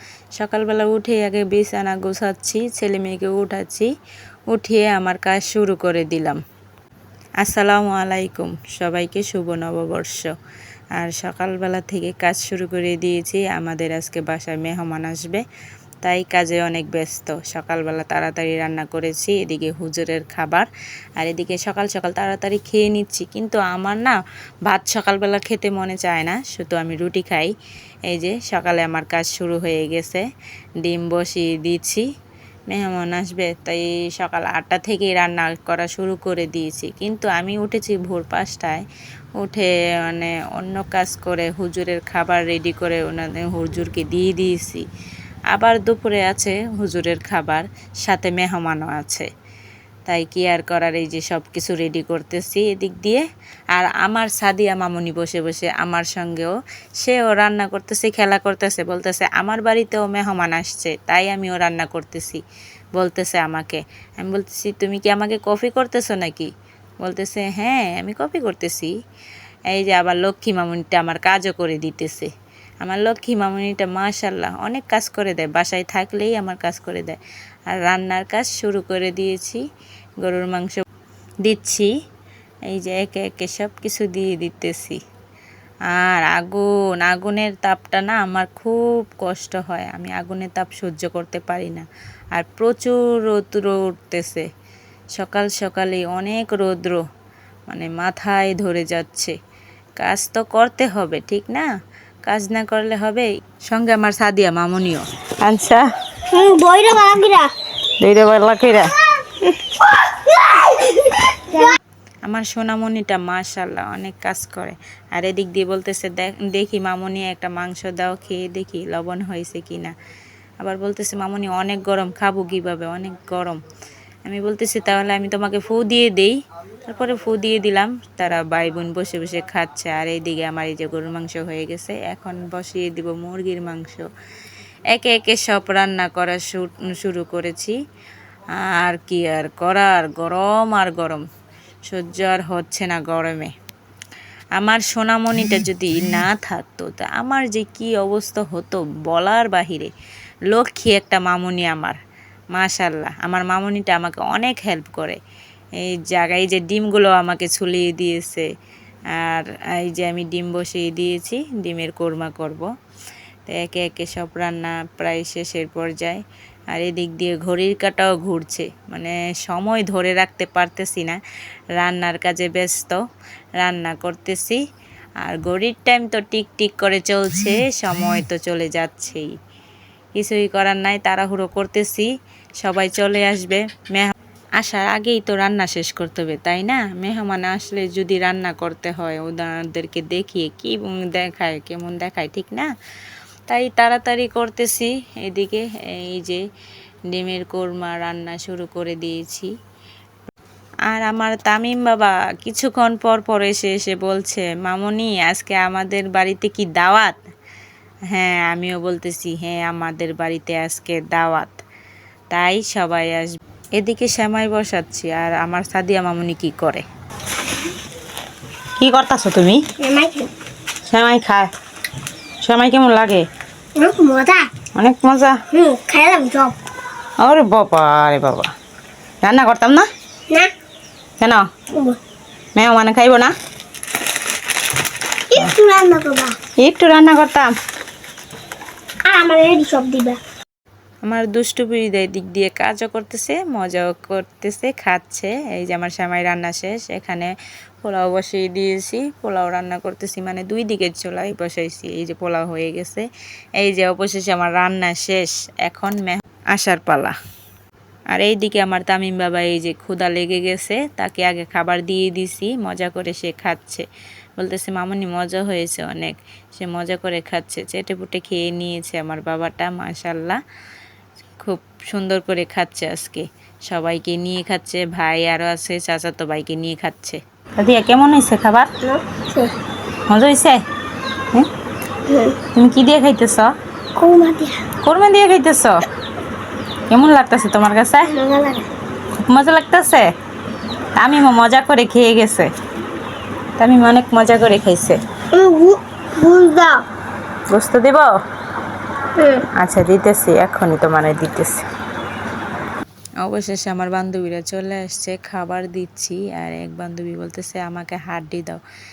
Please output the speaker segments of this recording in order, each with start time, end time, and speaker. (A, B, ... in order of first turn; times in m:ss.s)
0:00.4-0:03.9 A
0:04.5-0:06.4 A
0:07.4-0:10.3 A
0:11.0-0:15.4 A
0:16.0-0:27.5 A
0:28.1-0:30.2 A
0:30.8-0:32.0 A
0:32.7-0:38.8 A
0:39.4-0:44.8 A
0:45.5-0:49.3 A
0:50.0-1:02.4 A
1:03.0-1:06.5 A
1:07.0-1:08.9 A
1:09.7-1:12.3 A
1:12.8-1:19.6 A
1:20.2-1:20.8 A
1:21.4-1:21.9 A
1:22.7-1:25.0 A
1:25.9-1:34.5 A
1:35.2-1:37.0 A
1:37.7-1:39.4 A
1:40.0-1:41.7 A
1:42.2-1:45.8 A
1:46.3-1:47.5 B
1:48.0-1:48.9 A
1:50.0-1:51.8 B
1:52.2-1:59.9 A
2:00.6-2:03.6 A
2:04.2-2:14.1 A
2:14.9-2:17.8 A
2:18.6-2:21.2 A
2:21.9-2:23.5 A
2:24.6-2:29.9 A
2:30.5-2:32.0 A
2:32.5-2:35.2 A
2:35.8-2:38.5 A
2:39.1-2:42.7 A
2:43.5-2:46.2 A
2:46.7-2:51.2 A
2:51.8-2:53.0 A
2:53.6-2:54.6 A
2:55.2-2:59.3 A
3:00.2-3:02.1 A
3:02.6-3:12.7 A
3:13.5-3:16.4 A
3:17.1-3:19.5 A
3:20.9-3:27.2 A
3:28.1-3:31.6 A
3:32.3-3:36.8 A
3:38.8-3:39.6 A
3:39.8-3:40.3 B
3:40.9-3:41.5 A
3:42.4-3:43.2 A
3:43.8-3:44.5 B
3:44.8-3:45.4 A
3:45.5-3:46.6 B
3:47.2-3:48.5 A
3:49.2-3:49.9 A
3:51.2-3:51.5 A
3:51.7-3:52.0 B
3:52.6-3:53.3 A
3:55.3-3:56.4 B
3:56.6-3:57.5 A
3:59.0-4:00.2 B
4:01.0-4:07.3 A
4:07.8-4:13.1 A
4:13.6-4:17.2 A
4:18.1-4:23.8 A
4:24.4-4:30.4 A
4:31.4-4:38.7 A
4:38.8-4:39.5 B
4:40.1-4:40.6 A
4:42.1-4:42.4 B
4:42.5-4:43.5 A
4:44.0-4:44.6 B
4:44.8-4:45.8 A
4:46.9-4:48.1 A
4:48.1-4:48.7 B
4:49.2-4:50.1 A
4:51.0-4:52.5 A
4:53.6-4:55.0 A
4:55.3-4:56.8 B
4:57.5-4:58.1 A
4:59.2-4:59.5 B
4:59.5-5:01.6 A
5:03.2-5:08.6 A